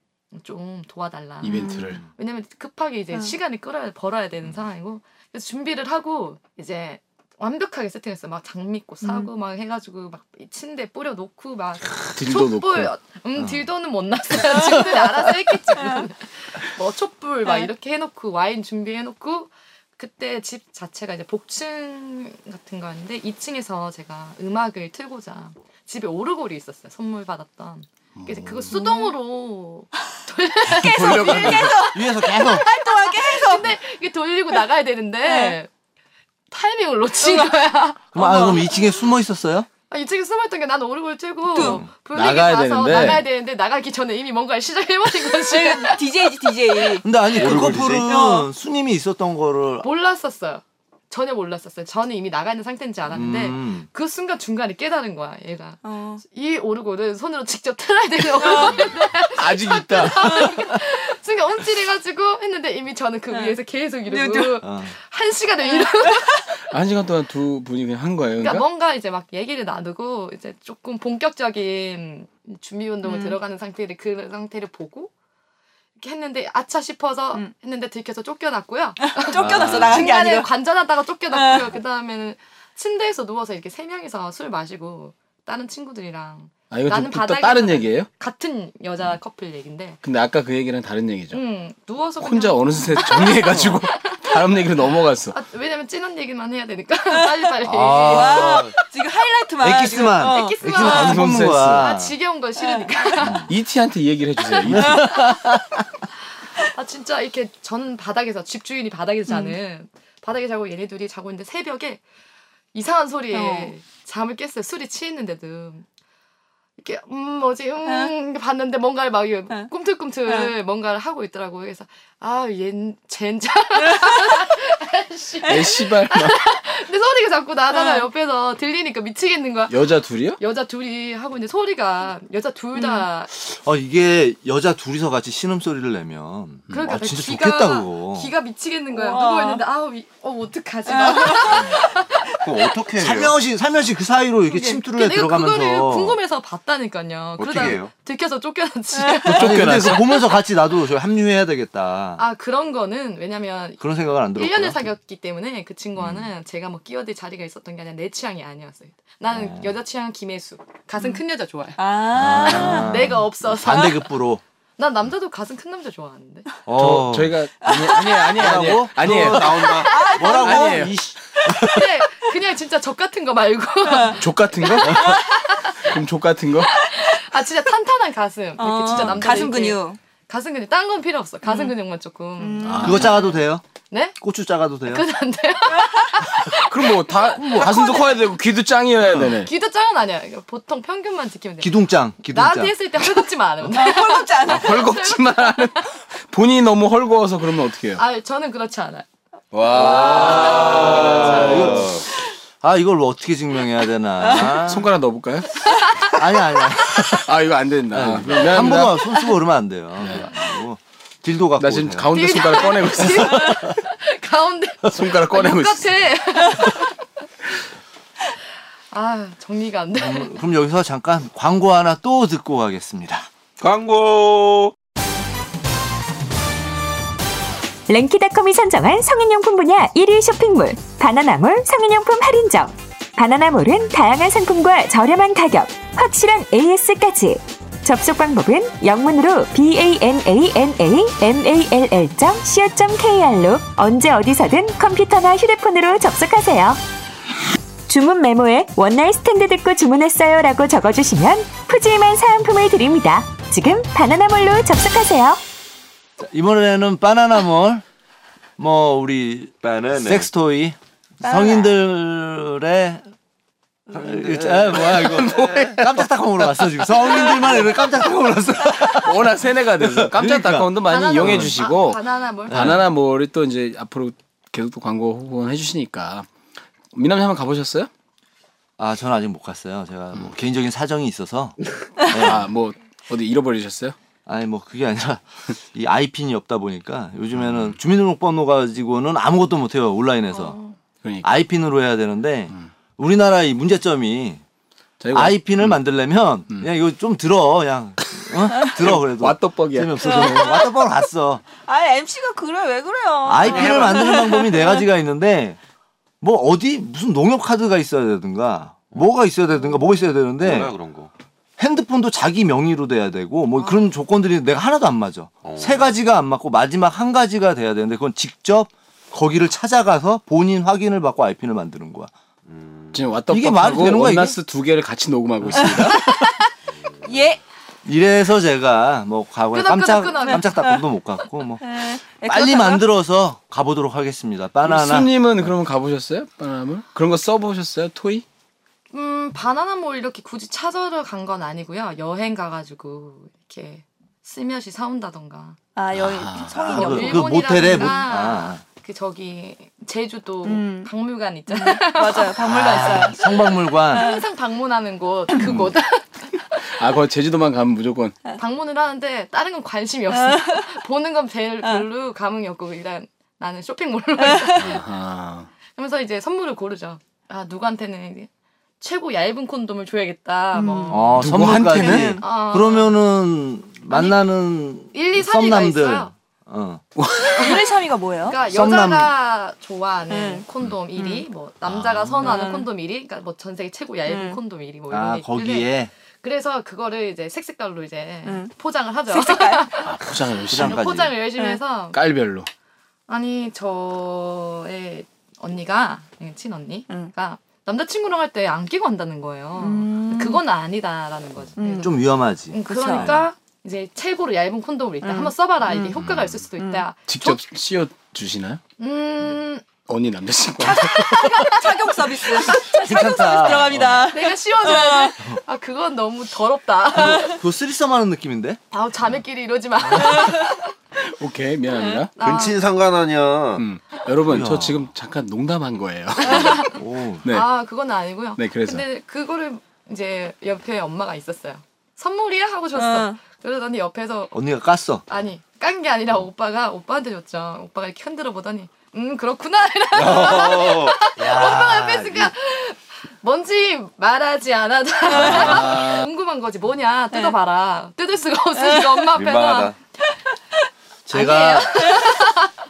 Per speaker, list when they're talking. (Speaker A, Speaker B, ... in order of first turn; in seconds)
Speaker A: 0.3-35.7, 36.5-38.5, 39.9-47.0, 49.8-66.5, 68.4-75.1, 76.0-90.0, 91.3-94.4, 95.3-98.8, 100.2-103.4, 106.7-112.0, 112.7-115.8, 116.8-133.3, 136.7-142.3, 144.5-150.1, 152.2-153.8, 154.3-161.8, 162.4-164.0, 164.8-166.5, 171.6-175.8, 176.8-183.0, 183.9-184.2, 184.9-188.2, 189.4-195.8, 197.9-199.1, 212.1-216.9, 218.9-220.3, 270.8-272.8, 290.3-290.7, 329.5-330.5, 338.9-345.6, 346.7-353.0, 353.9-356.6, 358.4-364.9, 365.7-368.3, 368.8-371.3, 372.2-372.9, 373.9-374.2, 374.9-376.1, 378.2-392.0, 393.1-402.0, 402.5-407.4, 408.8-409.6, 414.1-417.4, 418.7-420.7, 422.1-422.6, 426.2-426.7, 427.3-434.3, 435.1-449.7, 451.1-452.5
Speaker B: 1.4-2.0, 12.1-12.9, 28.1-28.8, 30.8-31.8, 42.1-43.3, 59.2-60.5, 66.7-68.7, 86.7-88.1, 90.0-91.4, 92.2-95.4, 100.8-101.9, 103.5-105.2, 125.5-126.4, 129.7-130.4, 149.3-150.0, 166.7-171.1, 174.2-175.2, 175.8-176.7, 182.6-183.1, 186.6-189.5, 194.4-198.0, 199.7-201.8, 204.6-205.5, 207.2-209.0, 210.0-210.3, 211.6-213.6, 214.9-215.9, 269.0-276.3, 276.9-277.9, 282.1-283.9, 287.4-287.7, 291.0-291.3, 295.0-295.8, 298.6-300.3, 322.9-326.0, 334.6-338.2, 346.0-346.6, 355.4-355.7, 356.8-358.2, 364.6-365.5, 371.2-372.2, 377.0-377.4, 389.8-390.9, 391.9-392.5, 407.1-408.6, 409.9-411.5, 421.0-422.1, 423.6-426.7, 427.2-427.5, 428.4-428.8
Speaker C: 1.4-2.0, 9.0-9.3, 17.4-17.7, 28.7-29.1, 30.8-33.7, 35.2-35.6, 37.2-38.7, 41.5-41.8, 45.2-48.5, 55.8-56.2, 58.4-59.0, 63.3-64.6, 65.7-66.4, 73.0-73.4, 79.0-80.5, 81.3-81.7, 97.1-100.9, 102.6-103.1, 109.3-109.6, 113.3-113.7, 117.8-118.1, 120.2-120.5, 123.8-124.5, 127.7-128.1, 132.8-133.0, 138.9-139.6, 140.9-141.7, 148.9-149.3, 161.8-162.9, 167.6-168.3, 169.6-170.9, 173.8-174.2, 174.8-175.2, 178.6-180.0, 181.4-181.7, 182.4-183.3, 185.8-186.2, 193.7-195.0, 204.2-204.6, 261.2-261.7, 300.0-300.8, 301.6-304.8, 325.6-326.2, 327.0-327.4, 330.2-330.8, 331.6-332.8, 345.7-347.9, 350.4-350.9, 351.5-354.2, 360.1-360.7, 364.2-364.7, 370.5-371.1, 371.6-372.2, 377.3-378.4, 380.1-380.4, 380.9-381.2, 382.2-382.7, 384.1-384.4, 388.2-388.5, 389.1-389.7, 399.6-400.4, 401.6-402.0, 402.6-403.2, 405.0-406.0, 406.6-406.8, 410.6-415.2, 420.0-420.5, 432.7-433.2, 445.1-445.7, 448.6-449.1, 451.6-452.2
Speaker D: 13.4-13.6, 30.9-32.6, 38.1-39.7, 41.6-41.9, 42.9-43.2, 47.0-49.9, 53.1-53.9, 64.6-64.9, 79.4-80.1, 97.6-98.7, 99.6-102.1, 103.2-103.5, 104.6-105.8, 133.3-138.3, 143.0-146.2, 149.3-152.2, 153.8-154.8, 156.0-156.3, 159.3-159.7, 162.1-164.4, 166.7-169.4, 170.0-171.8, 182.8-183.6, 184.2-185.1, 187.3-187.9, 191.6-192.7, 199.7-202.0, 202.6-204.9, 206.1-207.3, 207.9-212.1, 219.9-223.3, 256.2-257.8, 258.6-263.0, 263.9-271.6, 272.5-272.8, 278.8-282.4, 284.2-290.6, 291.2-294.4, 295.1-301.4, 303.2-305.6, 306.2-310.7, 311.6-322.1, 323.3-324.4, 325.5-326.0, 327.8-335.1, 346.6-348.6, 352.4-354.1, 370.9-376.8, 378.4-379.1, 381.7-382.1, 384.9-385.9, 390.5-391.1, 401.8-403.2, 412.7-414.1, 416.9-418.6, 424.2-424.9, 426.6-427.2, 434.3-435.0, 441.2-442.3, 445.1-446.0, 451.1-451.8
Speaker E: 47.3-48.1, 142.4-143.3, 147.4-147.9, 168.4-170.2, 199.5-202.0, 223.6-224.7, 259.6-260.3, 263.9-265.8, 303.5-304.1, 310.4-311.1, 315.4-315.9, 322.4-323.2, 326.7-327.4, 422.2-423.6, 439.9-441.0, 449.1-449.8
Speaker F: 227.9-246.8, 247.9-255.4